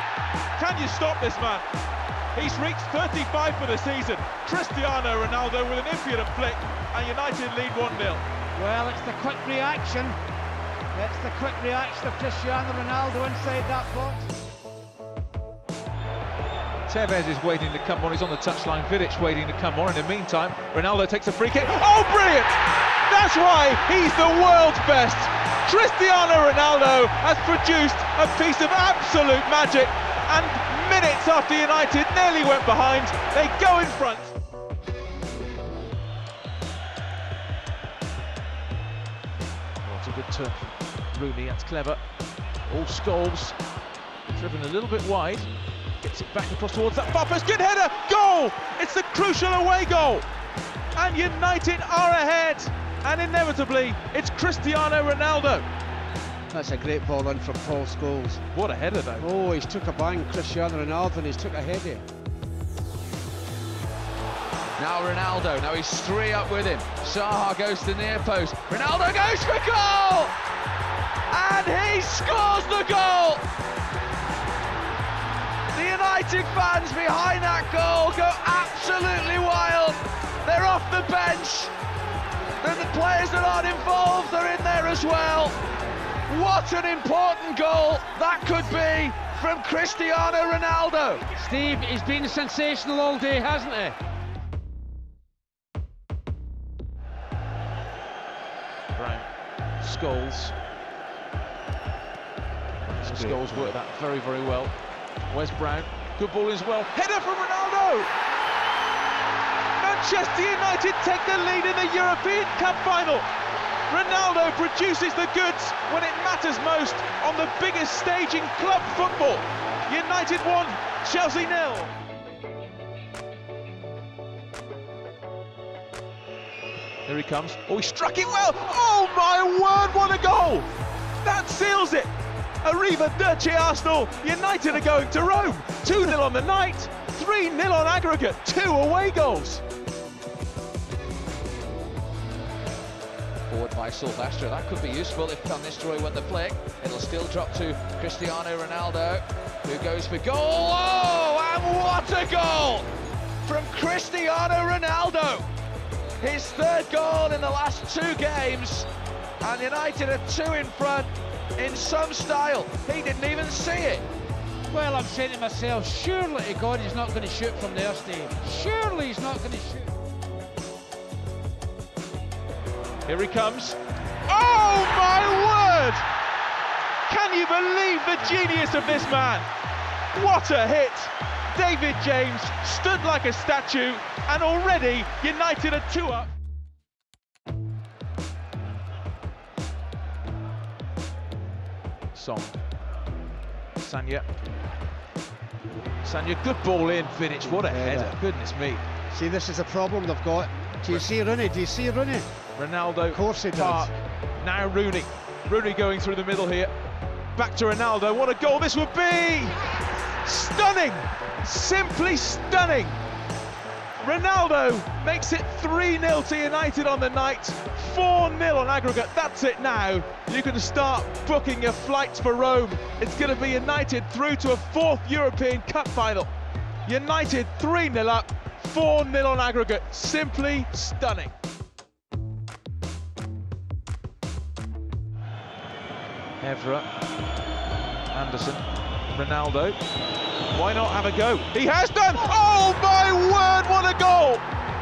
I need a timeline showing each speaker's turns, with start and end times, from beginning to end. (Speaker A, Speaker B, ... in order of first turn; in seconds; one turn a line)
Speaker A: 0.6-1.7
Speaker A: 2.3-8.2
Speaker B: 8.6-10.2
Speaker B: 10.9-14.3
Speaker A: 16.9-34.3
Speaker A: 39.8-42.0
Speaker A: 42.7-43.6
Speaker A: 44.3-45.5
Speaker A: 46.0-50.2
Speaker A: 51.0-55.7
Speaker B: 56.5-58.4
Speaker A: 58.5-59.3
Speaker B: 59.2-62.0
Speaker C: 64.8-70.3
Speaker C: 71.3-73.4
Speaker C: 75.7-81.7
Speaker C: 82.6-85.6
Speaker C: 86.3-91.2
Speaker B: 91.4-94.0
Speaker A: 99.0-99.3
Speaker A: 99.8-100.5
Speaker A: 102.9-104.8
Speaker B: 103.0-103.8
Speaker A: 105.3-108.1
Speaker A: 109.8-113.3
Speaker A: 113.9-121.9
Speaker A: 127.1-130.7
Speaker A: 131.2-139.6
Speaker C: 143.5-152.9
Speaker C: 153.4-155.5
Speaker C: 156.2-158.9
Speaker C: 159.4-164.1
Speaker B: 164.7-169.9
Speaker A: 173.1-176.1
Speaker A: 177.1-179.5
Speaker A: 180.1-186.3
Speaker A: 192.1-192.6
Speaker A: 193.8-194.3
Speaker A: 196.0-198.8
Speaker B: 197.4-198.2
Speaker B: 199.1-202.3
Speaker A: 202.6-206.7
Speaker B: 203.1-203.9
Speaker A: 207.4-213.0
Speaker A: 214.0-226.3
Speaker A: 226.8-231.3
Speaker A: 236.4-236.9
Speaker A: 238.1-239.8
Speaker A: 240.5-244.4